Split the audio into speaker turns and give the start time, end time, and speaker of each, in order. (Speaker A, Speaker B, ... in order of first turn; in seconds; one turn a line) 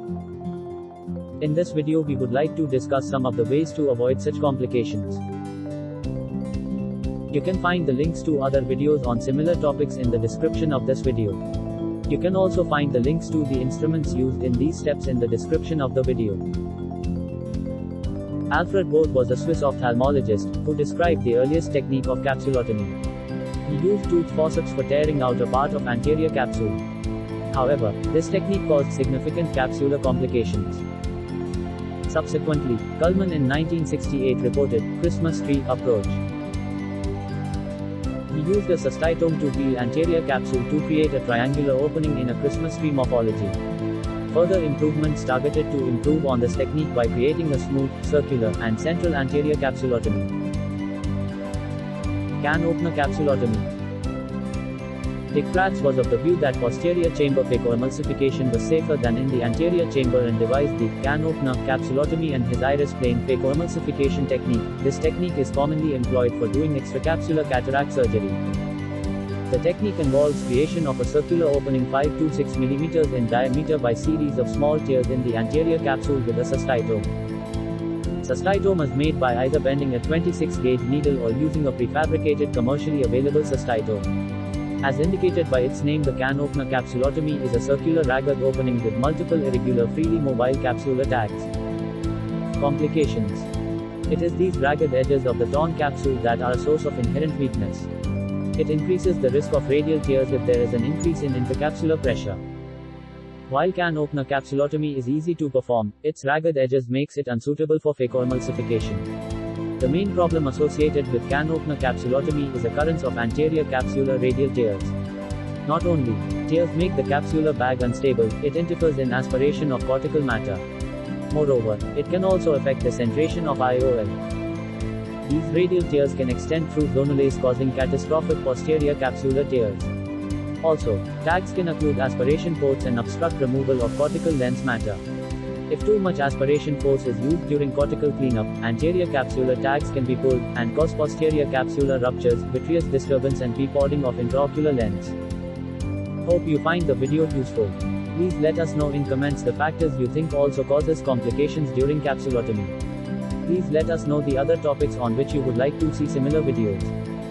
Speaker A: 1.4-5.2
Speaker A: 7.3-11.4
Speaker A: 12.1-16.4
Speaker A: 18.5-23.0
Speaker A: 23.6-26.8
Speaker A: 27.5-30.8
Speaker A: 32.1-36.2
Speaker A: 38.3-43.6
Speaker A: 44.3-50.3
Speaker A: 52.4-53.7
Speaker A: 55.3-68.4
Speaker A: 69.5-77.1
Speaker A: 78.2-84.1
Speaker A: 84.8-91.5
Speaker A: 92.6-93.5
Speaker A: 94.1-97.9
Speaker A: 98.5-102.4
Speaker A: 103.5-109.1
Speaker A: 109.8-114.9
Speaker A: 115.6-120.6
Speaker A: 121.3-124.2
Speaker A: 125.2-129.9
Speaker A: 130.6-135.0
Speaker A: 135.7-145.2
Speaker A: 146.2-152.8
Speaker A: 153.4-156.9